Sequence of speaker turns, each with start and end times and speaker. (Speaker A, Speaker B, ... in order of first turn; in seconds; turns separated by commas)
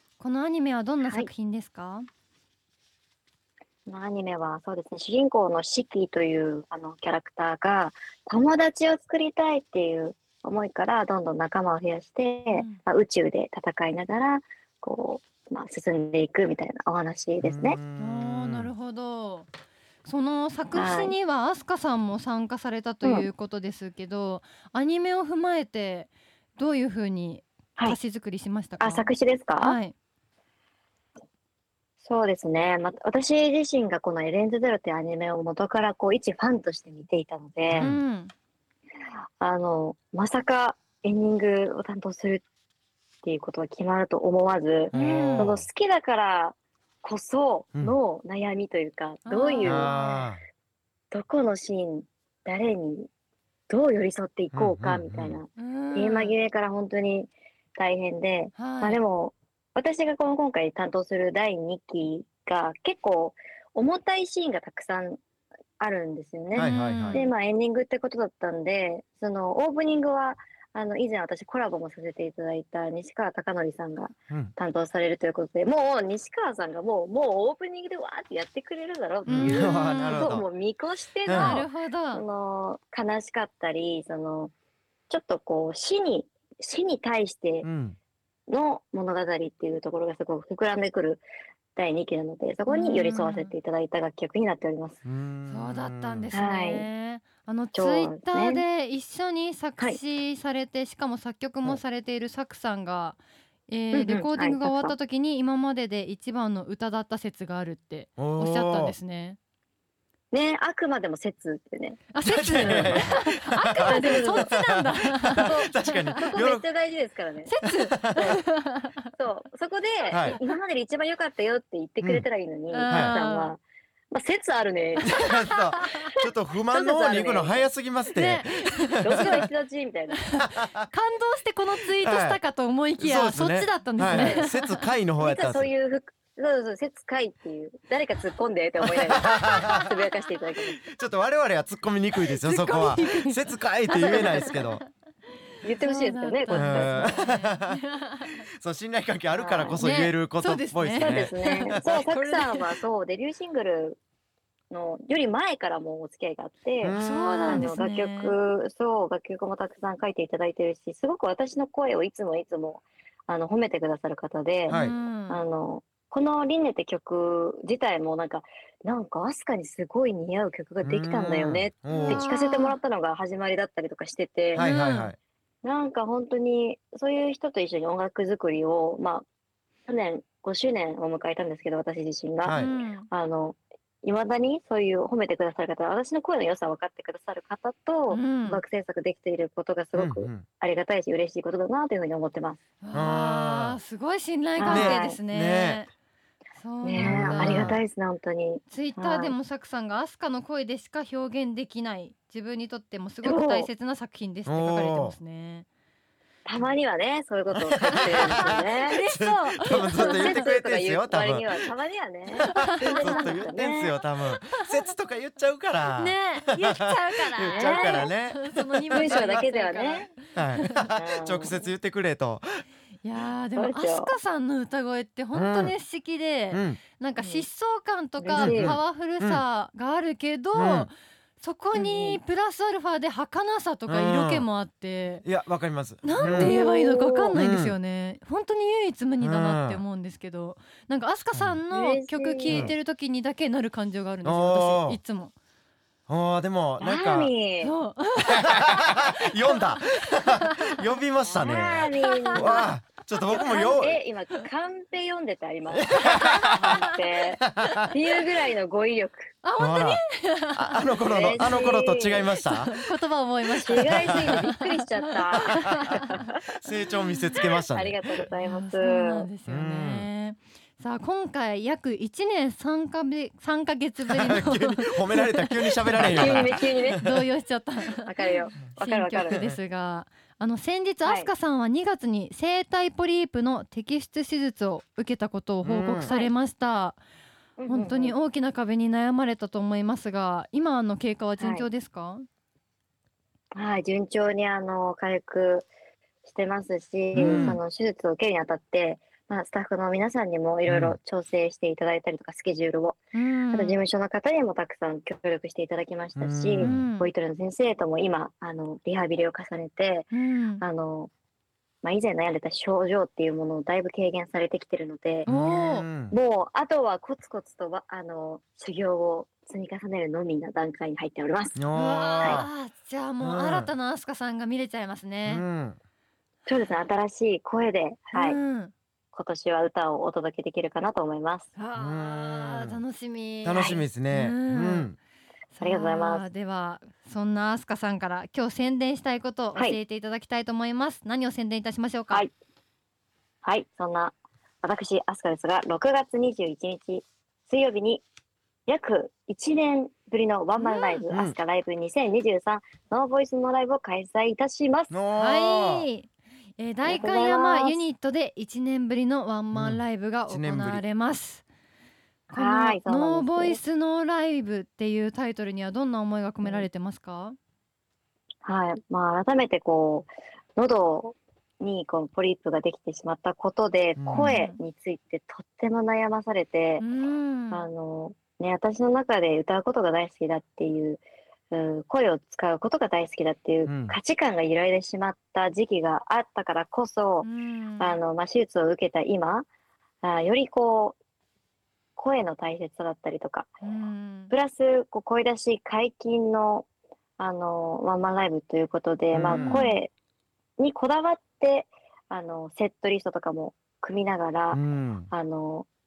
Speaker A: 0.2-2.1, Speaker B: 3.9-17.8, Speaker A: 12.5-12.8, Speaker C: 17.4-18.7, Speaker A: 18.0-19.5, Speaker A: 20.0-29.9, Speaker B: 20.8-21.2, Speaker B: 23.0-23.3, Speaker B: 28.8-29.8, Speaker B: 32.0-37.9, Speaker C: 37.8-38.0, Speaker A: 37.8-38.3, Speaker B: 39.4-42.4, Speaker B: 43.2-50.0, Speaker C: 44.9-45.6, Speaker A: 44.9-45.5, Speaker A: 49.2-50.2, Speaker C: 49.6-50.4, Speaker B: 51.1-53.1, Speaker B: 53.7-65.2, Speaker C: 54.5-55.4, Speaker A: 55.6-56.4, Speaker A: 58.5-59.0, Speaker B: 65.8-84.5, Speaker C: 66.5-67.3, Speaker A: 66.5-67.3, Speaker C: 79.3-80.5, Speaker A: 79.3-80.3, Speaker C: 81.3-81.7, Speaker A: 81.3-82.2, Speaker B: 85.1-87.7, Speaker C: 87.6-88.0, Speaker B: 88.5-91.2, Speaker B: 91.8-95.0, Speaker A: 92.7-93.5, Speaker C: 95.0-96.3, Speaker A: 95.5-109.4, Speaker B: 96.3-96.9, Speaker B: 97.7-98.6, Speaker B: 103.9-105.0, Speaker C: 108.2-109.0, Speaker B: 110.3-112.0, Speaker A: 112.1-116.2, Speaker C: 112.2-116.6, Speaker B: 112.6-113.1, Speaker B: 113.8-114.5, Speaker B: 115.4-117.5, Speaker A: 117.5-119.1, Speaker C: 117.8-118.4, Speaker B: 119.2-123.6, Speaker C: 120.1-120.4, Speaker A: 122.7-123.5, Speaker C: 122.9-123.2, Speaker B: 124.1-125.2, Speaker C: 125.1-129.4, Speaker A: 125.8-126.1, Speaker B: 126.7-127.7, Speaker A: 128.2-129.4, Speaker B: 129.0-130.2, Speaker A: 130.2-134.8, Speaker C: 130.4-130.8, Speaker C: 132.0-132.4, Speaker C: 133.0-135.7, Speaker B: 134.1-134.5, Speaker B: 135.2-140.8, Speaker C: 138.8-139.9, Speaker A: 139.5-139.8, Speaker C: 140.8-144.8, Speaker A: 142.3-144.9, Speaker B: 145.6-147.1, Speaker A: 145.8-148.3, Speaker C: 146.5-147.8, Speaker C: 148.6-151.8, Speaker B: 149.3-149.8, Speaker A: 149.8-152.7, Speaker B: 150.9-154.0, Speaker B: 154.7-174.7, Speaker C: 156.8-157.7, Speaker A: 156.9-158.3, Speaker C: 164.7-164.9, Speaker A: 164.7-165.4, Speaker C: 170.8-172.2, Speaker A: 171.9-172.8, Speaker C: 174.5-175.2, Speaker A: 174.6-175.1, Speaker B: 175.6-179.2, Speaker B: 179.9-192.6, Speaker C: 182.4-182.7, Speaker A: 182.6-183.1, Speaker A: 188.1-188.6, Speaker C: 189.9-190.4, Speaker A: 192.8-195.9, Speaker C: 192.9-193.8, Speaker B: 194.6-195.2, Speaker C: 194.7-195.8, Speaker A: 196.6-197.8, Speaker B: 196.8-199.3, Speaker C: 197.0-197.8, Speaker A: 198.7-205.7, Speaker B: 203.2-203.7, Speaker C: 204.5-205.2, Speaker B: 206.5-209.0, Speaker C: 207.5-211.5, Speaker A: 207.9-210.4, Speaker B: 209.7-214.0, Speaker C: 212.4-219.4, Speaker A: 212.5-213.4, Speaker A: 216.0-220.8, Speaker B: 217.5-218.1, Speaker B: 218.9-220.1, Speaker C: 220.3-222.6, Speaker B: 221.0-221.6, Speaker A: 223.0-235.2, Speaker B: 223.6-224.1, Speaker C: 225.3-225.7, Speaker C: 226.5-226.8, Speaker B: 227.2-227.5, Speaker B: 228.2-228.7, Speaker C: 228.4-229.4, Speaker C: 230.6-230.9, Speaker B: 231.7-232.2, Speaker C: 233.9-234.5, Speaker C: 235.2-236.5, Speaker A: 236.0-245.3, Speaker B: 236.2-237.3, Speaker C: 237.3-237.8, Speaker C: 239.2-239.8, Speaker C: 241.3-241.6, Speaker B: 241.7-242.7, Speaker C: 242.5-242.7, Speaker C: 244.2-245.0, Speaker C: 246.1-247.3, Speaker B: 246.8-247.8, Speaker A: 247.6-250.8, Speaker C: 248.4-254.0, Speaker B: 251.3-252.7, Speaker A: 251.4-252.6, Speaker B: 253.2-259.3, Speaker C: 255.7-256.8, Speaker A: 256.0-256.9, Speaker C: 257.4-257.8, Speaker A: 259.4-260.8, Speaker C: 259.6-260.0, Speaker C: 260.6-262.8, Speaker B: 261.0-262.3, Speaker A: 262.5-266.1, Speaker B: 263.6-266.4, Speaker C: 266.5-268.0, Speaker B: 267.7-269.3, Speaker A: 268.4-287.0, Speaker C: 269.5-270.1, Speaker C: 274.1-277.2, Speaker B: 276.0-277.1, Speaker B: 278.0-279.4, Speaker B: 281.0-281.3, Speaker C: 285.6-286.1, Speaker B: 287.6-288.1, Speaker A: 287.7-292.2, Speaker B: 291.4-291.7, Speaker B: 293.6-295.7, Speaker B: 296.2-303.0, Speaker C: 297.1-297.6, Speaker A: 297.2-297.6, Speaker C: 300.7-301.0, Speaker A: 303.1-303.8, Speaker B: 303.5-310.1, Speaker C: 306.2-306.9, Speaker A: 306.6-307.1, Speaker A: 310.1-310.6, Speaker B: 310.6-311.1, Speaker B: 311.8-315.3, Speaker A: 315.3-315.9, Speaker C: 315.3-316.1, Speaker B: 316.1-321.6, Speaker C: 321.6-322.5, Speaker A: 321.7-325.4, Speaker C: 323.2-323.7, Speaker C: 325.3-325.8, Speaker B: 326.5-328.4, Speaker A: 328.1-328.7, Speaker B: 329.1-331.5, Speaker A: 331.6-334.9, Speaker C: 331.7-332.8, Speaker C: 333.4-334.9, Speaker B: 333.6-333.8, Speaker A: 335.5-342.2, Speaker B: 335.6-336.2, Speaker B: 343.4-348.0, Speaker B: 348.7-354.9, Speaker A: 350.6-351.0, Speaker C: 354.9-355.9, Speaker A: 355.2-361.4, Speaker B: 356.9-357.8, Speaker C: 359.5-360.8, Speaker B: 362.3-363.6, Speaker A: 362.3-367.4, Speaker B: 366.4-366.7, Speaker B: 368.4-376.8, Speaker C: 374.0-374.4, Speaker A: 374.2-374.6, Speaker A: 376.8-377.6, Speaker B: 377.5-387.3, Speaker C: 383.7-383.9, Speaker A: 387.2-388.0, Speaker B: 387.8-389.5, Speaker B: 390.0-391.0, Speaker B: 392.0-393.5, Speaker A: 393.6-394.3, Speaker B: 394.3-396.7, Speaker B: 397.2-399.9, Speaker C: 399.1-399.6, Speaker A: 399.3-399.8, Speaker B: 400.6-405.7, Speaker C: 404.5-405.1